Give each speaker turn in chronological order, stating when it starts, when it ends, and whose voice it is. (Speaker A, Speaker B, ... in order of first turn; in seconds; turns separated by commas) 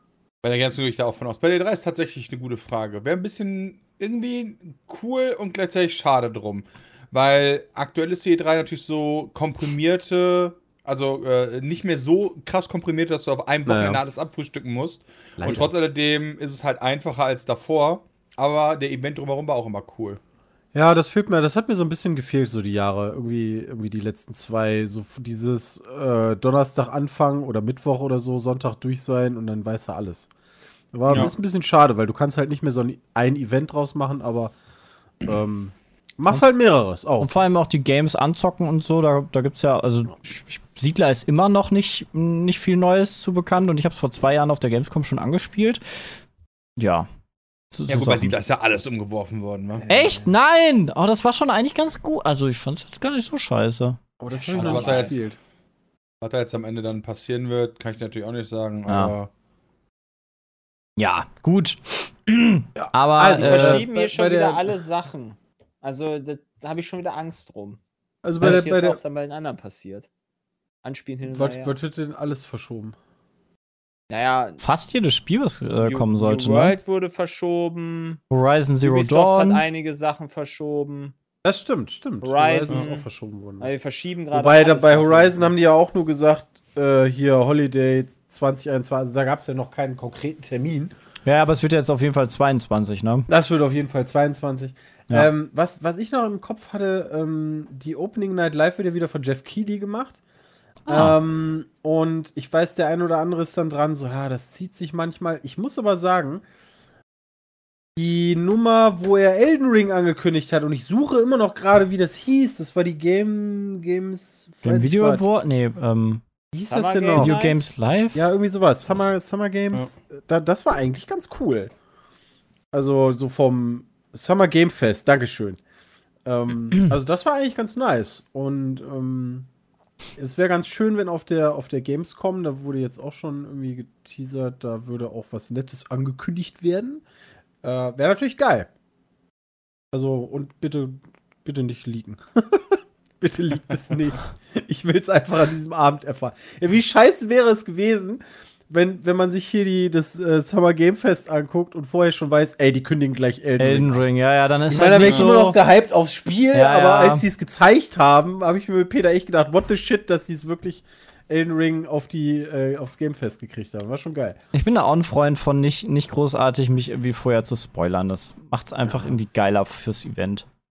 Speaker A: 0.4-20.2, Speaker B: 13.7-14.0, Speaker B: 15.4-15.7, Speaker B: 20.7-30.3, Speaker B: 30.9-34.5, Speaker A: 31.1-31.3, Speaker B: 35.2-37.4, Speaker C: 37.2-45.8, Speaker C: 46.8-47.1, Speaker C: 47.7-48.4, Speaker A: 47.9-49.8, Speaker B: 49.8-50.3, Speaker C: 49.9-54.0, Speaker B: 54.2-55.4, Speaker D: 54.5-55.1, Speaker A: 54.5-55.2, Speaker A: 56.2-59.3, Speaker C: 58.9-59.1, Speaker C: 61.0-63.8, Speaker B: 62.8-64.7, Speaker D: 63.2-67.8, Speaker B: 68.2-69.0, Speaker D: 68.4-70.1, Speaker D: 70.8-71.7, Speaker B: 71.3-73.0, Speaker D: 74.1-74.6, Speaker C: 74.6-76.8, Speaker D: 75.8-78.2, Speaker C: 78.3-79.6, Speaker D: 78.8-81.1, Speaker B: 81.4-83.7, Speaker D: 82.2-83.0, Speaker D: 83.6-85.5, Speaker B: 84.3-90.9, Speaker C: 91.2-93.3, Speaker B: 93.3-100.2, Speaker C: 100.8-101.2, Speaker B: 100.9-106.4, Speaker B: 108.0-115.2, Speaker C: 114.6-116.2, Speaker B: 116.5-117.4, Speaker D: 116.7-117.7, Speaker C: 117.1-118.2, Speaker B: 118.1-121.7, Speaker B: 122.7-125.6, Speaker B: 126.2-129.5, Speaker B: 130.2-137.0, Speaker B: 137.6-138.7, Speaker B: 139.9-154.0, Speaker C: 153.6-155.6, Speaker B: 154.7-164.4, Speaker A: 155.0-155.3, Speaker C: 156.5-157.2, Speaker C: 164.5-170.4, Speaker B: 168.8-169.1